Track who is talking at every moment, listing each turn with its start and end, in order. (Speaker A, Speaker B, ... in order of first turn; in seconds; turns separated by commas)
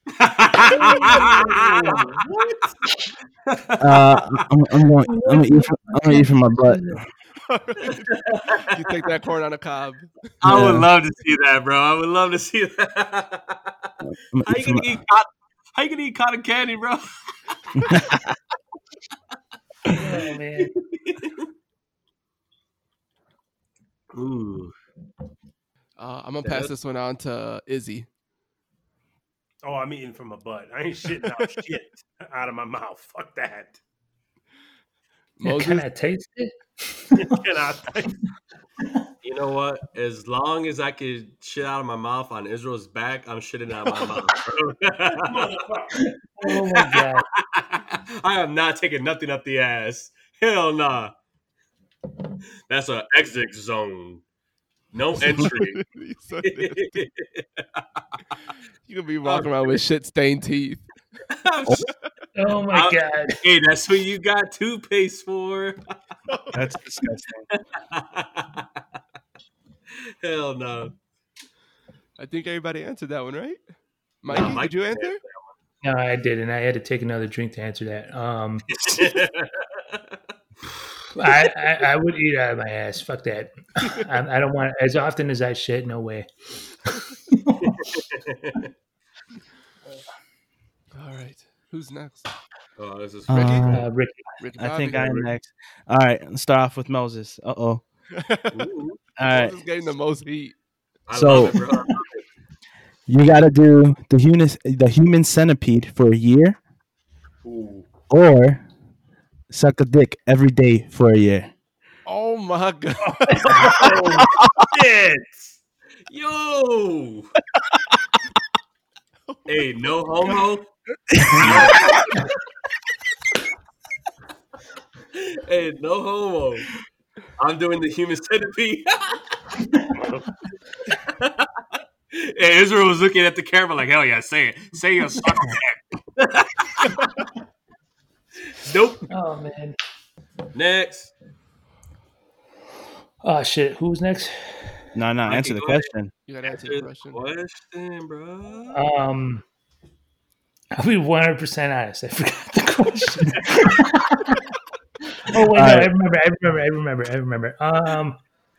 Speaker A: 0.1-2.2, Speaker B: 0.6-2.8, Speaker A: 3.5-4.2, Speaker C: 3.8-7.0, Speaker D: 5.1-7.0, Speaker E: 7.4-10.3, Speaker A: 8.1-8.8, Speaker A: 10.4-13.9, Speaker C: 10.4-10.9, Speaker C: 14.1-14.9, Speaker A: 14.4-17.6, Speaker C: 17.9-18.2, Speaker D: 19.9-20.7, Speaker A: 20.6-21.5, Speaker A: 24.1-24.7, Speaker E: 26.0-28.1, Speaker A: 26.4-26.7, Speaker B: 29.6-33.8, Speaker E: 31.2-31.5, Speaker E: 35.4-35.9, Speaker D: 35.4-37.4, Speaker B: 37.1-38.2, Speaker A: 39.2-45.5, Speaker E: 43.9-44.2, Speaker B: 45.1-46.0, Speaker D: 45.9-47.2, Speaker A: 46.5-51.1, Speaker A: 52.7-54.2, Speaker A: 54.9-55.8, Speaker E: 55.3-57.0, Speaker A: 56.4-58.0, Speaker E: 58.9-60.9, Speaker A: 59.2-59.8, Speaker A: 61.3-61.9, Speaker D: 62.4-63.4, Speaker A: 62.7-65.8, Speaker E: 66.3-66.7, Speaker C: 66.5-67.5, Speaker A: 67.5-68.7, Speaker A: 70.2-71.0, Speaker E: 72.2-73.6, Speaker E: 74.2-75.2, Speaker A: 74.3-75.3, Speaker D: 75.8-78.7, Speaker A: 78.8-80.0, Speaker D: 81.2-86.3, Speaker D: 87.3-87.8, Speaker A: 87.6-88.7, Speaker E: 90.9-92.3, Speaker A: 92.8-93.7, Speaker C: 93.3-93.9, Speaker E: 93.3-93.9, Speaker D: 93.6-94.2, Speaker E: 94.4-95.3, Speaker C: 94.6-97.8, Speaker E: 98.1-98.7, Speaker A: 98.5-99.0, Speaker C: 99.2-99.6, Speaker E: 99.2-100.6, Speaker A: 101.1-102.2, Speaker C: 101.1-101.6, Speaker C: 103.1-106.6, Speaker B: 107.4-107.9, Speaker C: 108.1-108.6, Speaker C: 109.5-111.5, Speaker E: 112.1-113.9, Speaker B: 113.2-115.6, Speaker A: 116.1-117.3, Speaker E: 119.3-119.7, Speaker A: 119.5-120.7, Speaker C: 121.2-121.7, Speaker A: 121.3-122.2, Speaker E: 121.5-122.0, Speaker A: 125.2-126.7, Speaker A: 127.4-129.2, Speaker B: 129.9-130.3, Speaker A: 131.0-137.1, Speaker A: 138.5-139.1, Speaker D: 139.1-139.8, Speaker A: 140.5-141.1, Speaker D: 143.2-144.8, Speaker C: 144.9-146.1, Speaker A: 145.3-145.9, Speaker E: 146.3-147.2, Speaker A: 146.4-148.8, Speaker D: 148.7-149.4, Speaker D: 150.8-154.4, Speaker D: 155.2-158.2, Speaker C: 155.5-155.9